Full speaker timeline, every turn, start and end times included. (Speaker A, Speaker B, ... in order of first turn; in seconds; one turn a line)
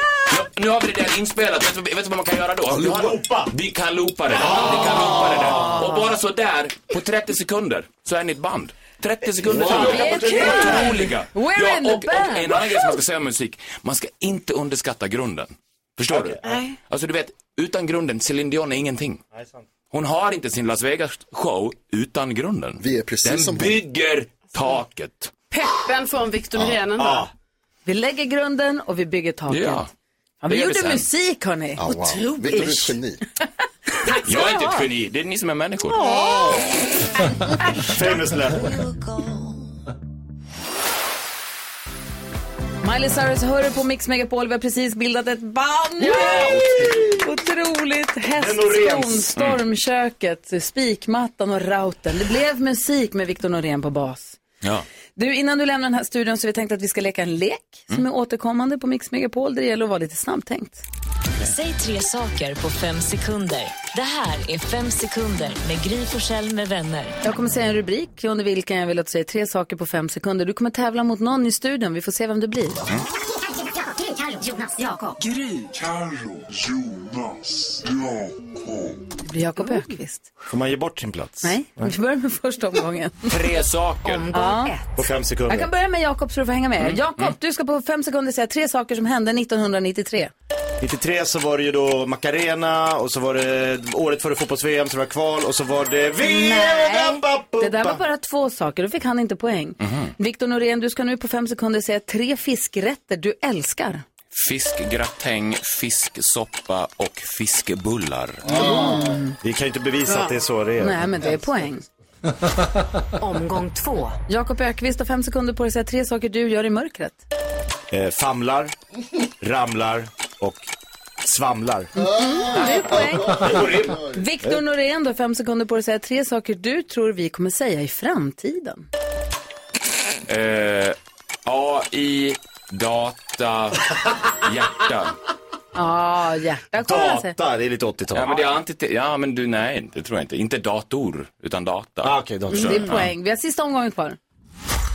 Speaker A: 0.3-19.2
Speaker B: 2.7-3.5
Speaker B: 4.3-5.8
Speaker C: 5.6-5.8
Speaker B: 9.4-11.1
Speaker C: 9.7-12.9
Speaker B: 16.1-16.4
Speaker D: 16.4-16.8
Speaker B: 19.3-19.7
Speaker A: 19.9-25.4
Speaker E: 22.8-23.8
Speaker D: 25.5-27.3
Speaker B: 27.0-27.3
Speaker C: 27.9-29.9
Speaker A: 29.5-29.9
Speaker C: 30.4-32.9
Speaker A: 30.5-31.1
Speaker E: 31.8-33.2
Speaker D: 32.2-32.8
Speaker C: 34.0-34.8
Speaker A: 34.2-36.0
Speaker C: 35.9-36.6
Speaker E: 36.1-36.8
Speaker B: 37.9-38.8
Speaker C: 42.8-54.4
Speaker B: 46.0-47.2
Speaker A: 46.4-47.1
Speaker B: 48.4-49.3
Speaker A: 49.4-49.6
Speaker C: 55.2-60.8
Speaker F: 61.5-67.2
Speaker C: 67.2-72.8
Speaker F: 74.2-75.2
Speaker C: 79.2-80.3
Speaker B: 80.5-81.9
Speaker C: 81.4-83.3
Speaker A: 83.3-84.3
Speaker F: 84.0-85.0
Speaker C: 84.3-84.7
Speaker B: 85.0-85.7
Speaker C: 85.5-90.3
Speaker A: 86.8-87.4
Speaker B: 90.8-98.0
Speaker C: 96.2-104.0
Speaker A: 99.8-100.1
Speaker A: 104.3-108.8
Speaker E: 108.4-109.2
Speaker C: 108.5-109.3
Speaker B: 109.4-111.1
Speaker D: 110.1-110.3
Speaker C: 110.8-111.8
Speaker F: 113.2-114.2
Speaker C: 114.3-117.2
Speaker B: 117.9-118.7
Speaker B: 119.4-120.7
Speaker B: 121.2-121.9
Speaker E: 122.0-124.2
Speaker C: 122.0-128.9
Speaker B: 122.6-124.6
Speaker A: 130.3-135.2
Speaker C: 135.8-137.3
Speaker B: 136.8-138.4
Speaker A: 138.1-143.1
Speaker B: 142.0-143.0
Speaker C: 142.6-144.2